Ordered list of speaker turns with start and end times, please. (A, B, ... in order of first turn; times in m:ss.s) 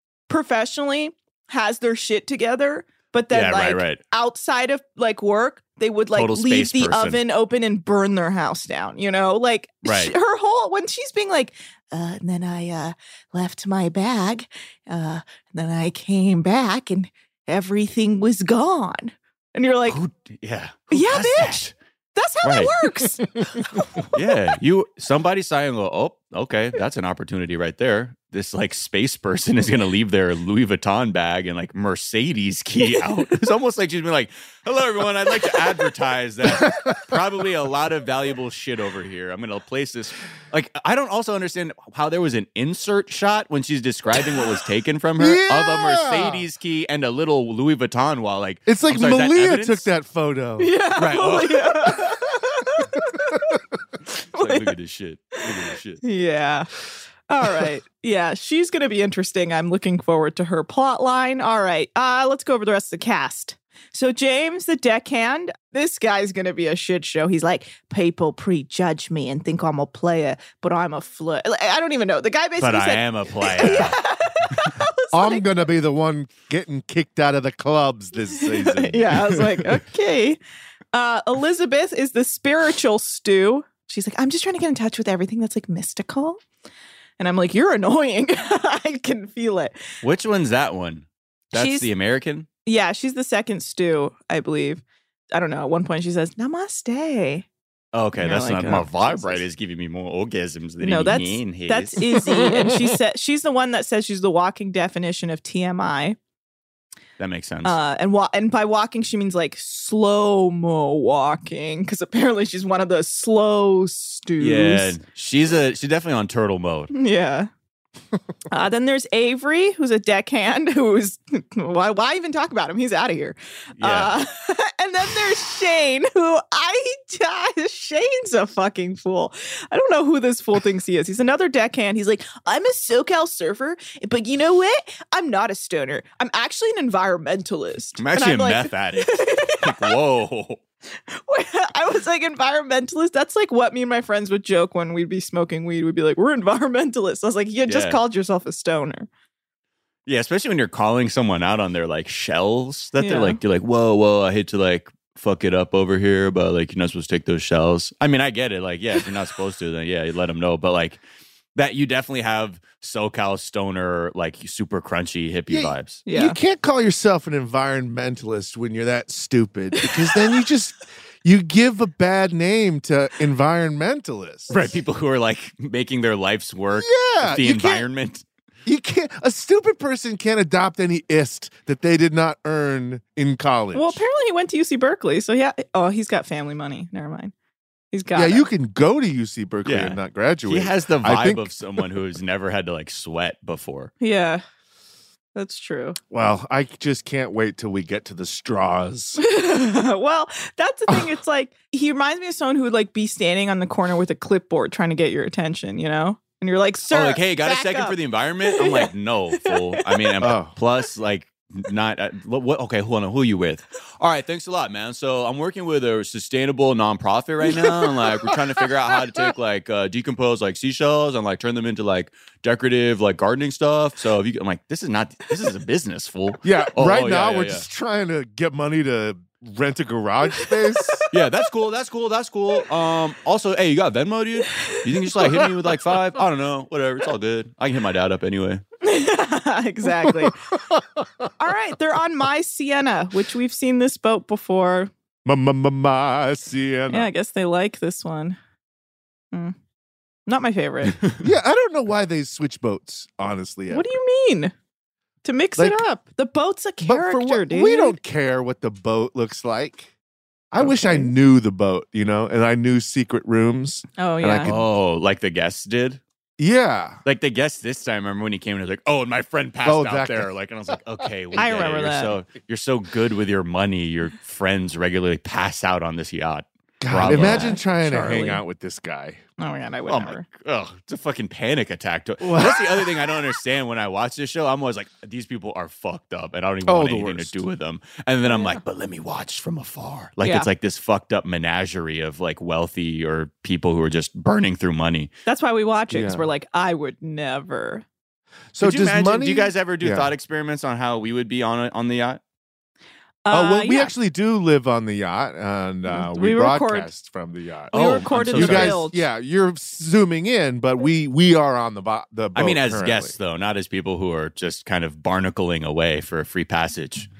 0:00.3-0:20.0 A
0:03.3-0:04.0 B
0:06.1-0:07.2 B
0:09.8-0:10.1 B
0:19.9-0:21.7 B
0:20.9-0:24.1 A
0:22.4-0:22.7 B
0:24.1-0:49.9 B
0:36.6-0:37.2 C
0:45.2-0:46.4 C
0:48.7-0:50.8 C
0:50.6-0:53.6 A
0:51.0-0:52.0 B
0:54.3-0:54.7 A
0:54.3-0:56.0 B
0:56.0-0:56.7 A
0:57.3-1:15.6 A
1:12.6-1:14.0 B
1:15.1-1:19.3 C
1:18.4-1:20.4 A
1:20.9-1:26.4 A
1:27.2-1:29.8 A
1:30.0-1:32.5 B
1:31.5-1:31.9 A
1:32.6-1:37.5 A
1:37.9-1:42.2 B
1:38.2-1:39.4 A
1:40.8-1:46.2 A
1:47.2-1:47.8 B
1:47.6-1:55.0 A
1:54.4-1:56.9 B
1:56.9-1:57.5 A
1:58.5-2:20.0 A
2:03.8-2:04.2 B
2:18.0-2:20.6 B
2:21.1-2:29.1 A
2:27.7-2:28.0 B
2:30.1-2:41.0 B
2:33.0-2:33.4 A
2:41.6-2:46.0 B
2:45.5-2:54.7 C
2:46.1-2:46.4 A
2:49.8-2:50.2 A
2:54.5-2:58.2 B
2:56.8-2:57.9 C
2:58.6-3:04.0 C
3:03.7-3:07.3 A
3:07.9-3:08.5 A
3:08.1-3:11.5 C
3:09.6-3:13.9 B
3:14.0-3:14.4 A
3:15.4-3:16.0 A
3:16.1-3:19.2 C
3:19.2-3:28.9 A
3:20.9-3:21.1 C
3:26.9-3:47.7 B
3:29.4-3:30.1 A
3:30.2-3:30.5 C
3:46.4-3:51.0 C
3:50.4-3:51.0 A
3:51.1-3:58.6 B
3:58.8-4:00.4 A
4:00.2-4:01.3 C
4:01.4-4:04.9 A
4:05.2-4:07.1 C
4:06.9-4:08.4 A
4:10.3-4:11.0 A
4:11.2-4:13.9 C
4:13.7-4:14.5 A
4:15.2-4:18.0 A
4:15.6-4:15.8 C
4:16.8-4:19.9 C
4:20.5-4:24.7 C
4:20.6-4:21.1 A
4:24.0-4:24.5 A
4:24.4-4:26.0 B
4:26.4-4:27.0 C
4:27.0-4:38.4 B
4:29.6-4:30.3 C
4:31.4-4:32.2 A
4:36.8-4:39.2 C
4:37.1-4:37.6 A
4:39.4-4:40.2 A
4:39.9-4:55.1 B
4:42.2-4:43.1 C
4:46.7-4:47.4 C
4:48.3-4:48.6 A
4:50.2-4:50.5 A
4:55.3-4:57.8 A
4:55.9-4:56.3 C
4:58.5-5:00.1 C
4:58.6-5:02.2 B
5:03.2-5:03.9 A
5:03.3-5:13.2 C
5:05.9-5:06.9 A
5:07.7-5:09.0 A
5:07.7-5:08.8 B
5:12.4-5:17.1 B